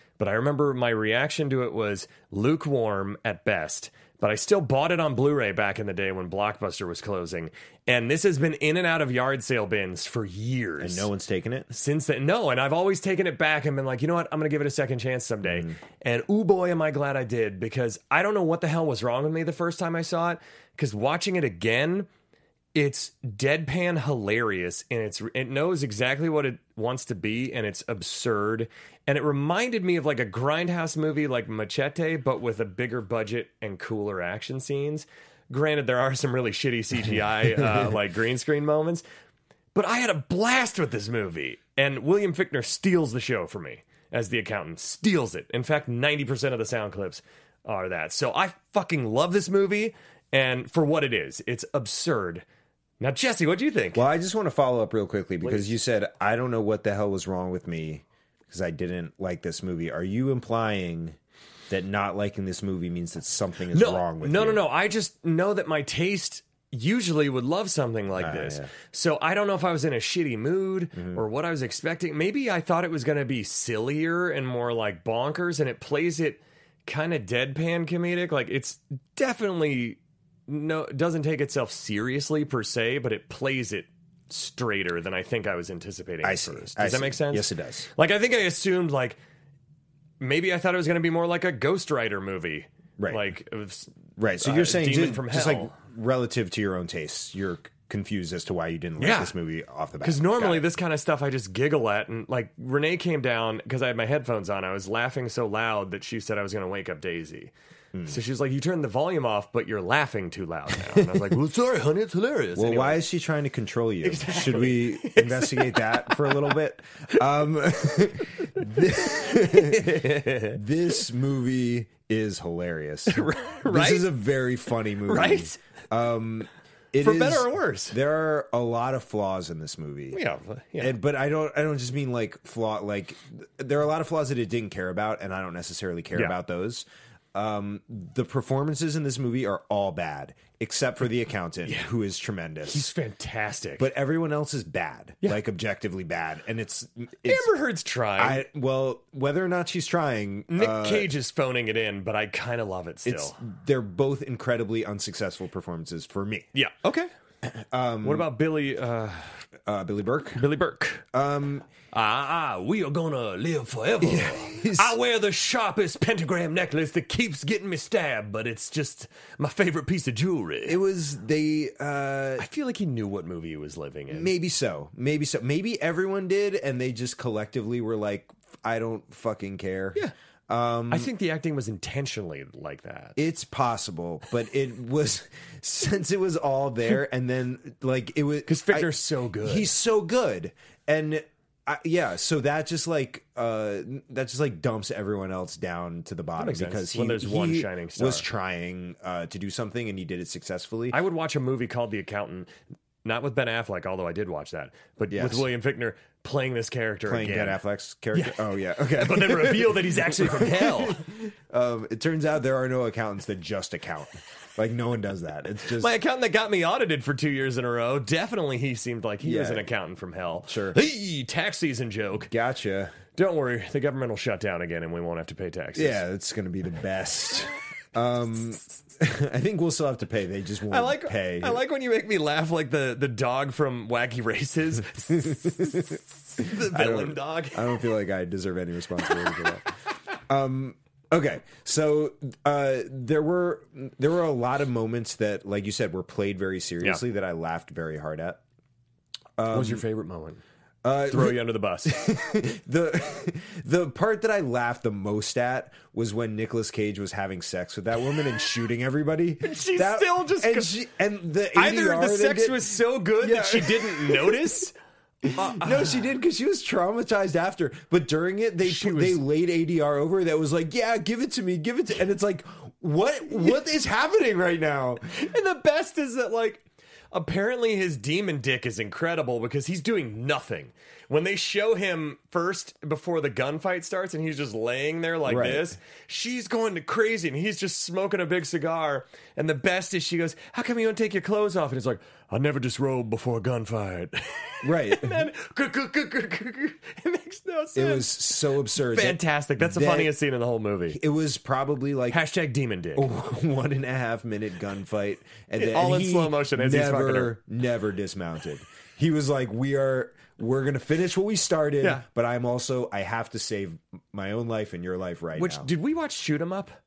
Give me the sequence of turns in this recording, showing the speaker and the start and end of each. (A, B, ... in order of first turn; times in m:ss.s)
0:00.2-0:11.1 A
0:10.8-0:11.7 B
0:11.7-0:22.1 A
0:15.4-0:15.8 B
0:22.7-0:39.0 A
0:37.0-0:37.9 B
0:39.7-0:52.4 A
0:53.0-0:54.0 A
0:53.9-1:01.2 B
0:55.4-0:55.7 A
1:01.7-1:04.6 B
1:03.7-1:29.2 A
1:08.2-1:08.7 B
1:10.9-1:11.2 B
1:26.2-1:27.9 B
1:30.2-1:35.7 A
1:33.0-1:33.2 B
1:34.2-1:40.6 B
1:39.0-1:39.3 A
1:40.0-1:47.5 A
1:48.1-1:53.0 A
1:50.9-1:51.2 B
1:52.5-2:10.2 B
1:54.0-1:56.5 A
1:58.6-2:00.6 A
2:03.1-2:04.1 A
2:05.0-2:05.6 A
2:07.0-2:08.0 A
2:10.1-2:11.0 A
2:10.8-2:22.9 B
2:21.6-2:21.9 A
2:22.6-2:23.9 A
2:23.8-2:27.5 B
2:27.2-2:28.4 A
2:28.2-2:31.1 B
2:30.5-2:33.4 A
2:33.0-2:36.5 B
2:36.5-2:37.1 A
2:37.4-2:38.3 B
2:38.0-2:39.4 A
2:39.6-2:40.4 B
2:40.4-2:41.0 A
2:41.1-2:41.6 B
2:41.9-2:50.8 A
2:44.0-2:44.9 B
2:50.6-2:52.4 B
2:52.4-2:54.3 A
2:54.1-3:01.1 B
3:00.9-3:03.2 A
3:03.2-3:21.0 B
3:08.5-3:09.7 A
3:16.4-3:18.2 A
3:20.9-3:22.5 A
3:23.0-3:27.6 A
3:25.1-3:25.4 B
3:27.0-3:35.9 B
3:28.1-3:28.4 A
3:28.9-3:31.0 A
3:35.8-3:42.3 A
3:39.2-3:39.7 B
3:40.4-3:40.8 B
3:42.3-3:43.0 B
3:43.1-3:46.0 A
3:45.7-3:51.6 B
3:50.7-3:57.7 A
3:55.2-3:59.7 B
4:00.3-4:08.4 B
4:09.4-4:09.8 B
4:09.5-4:10.4 A
4:10.8-4:24.5 B
4:11.1-4:11.9 A
4:19.4-4:20.7 A
4:21.5-4:24.7 A
4:25.2-4:35.0 B
4:25.3-4:26.1 A
4:28.6-4:29.2 A
4:35.1-5:01.0 A
4:45.2-4:45.8 B
4:54.6-4:55.2 B
4:57.7-5:00.1 B
5:00.9-5:02.2 B
5:02.1-5:03.1 A
5:03.0-5:15.7 B
5:05.5-5:07.4 A
5:15.3-5:16.8 A